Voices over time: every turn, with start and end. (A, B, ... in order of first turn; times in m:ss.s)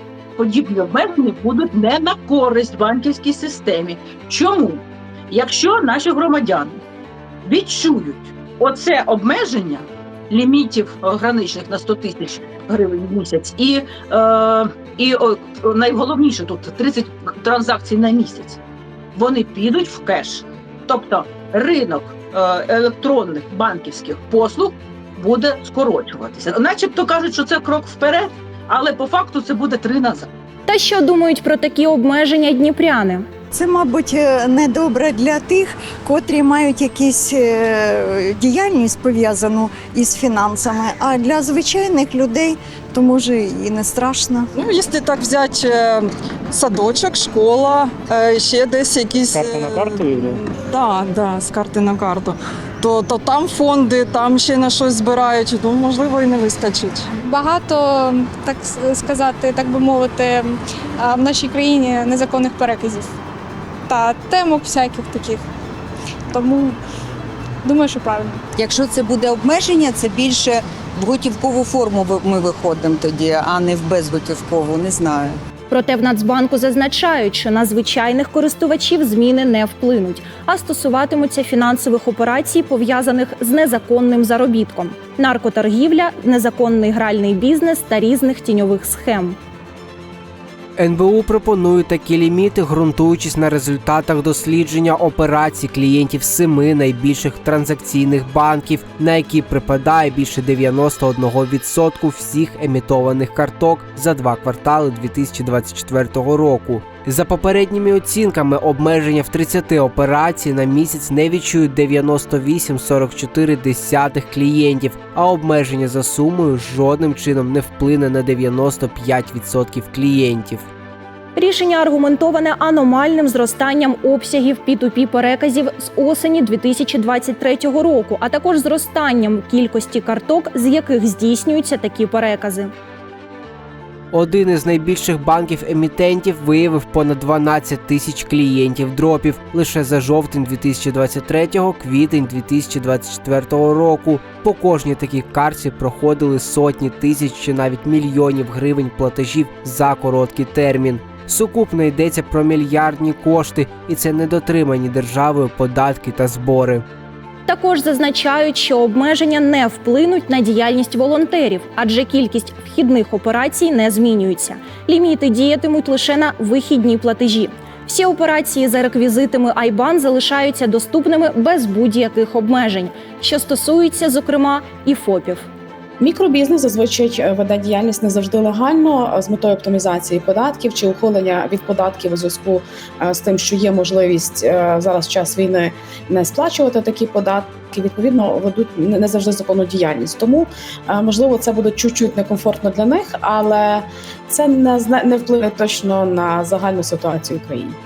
0:00.4-0:06.8 A
0:07.4-0:18.6 A
0:19.1-0:30.3 A
0:30.7-0:33.2 B
0:33.5-0:44.5 C
0:44.5-0:57.1 D
0:57.2-1:03.1 E
1:03.9-1:05.4 E
1:06.3-1:06.8 E
1:07.6-1:08.4 E
1:08.6-1:15.4 F
1:15.7-1:29.4 B
1:30.8-2:00.6 G
2:01.3-2:12.7 B
2:14.1-2:36.8 G
2:37.5-2:55.5 B
2:56.0-3:17.8 H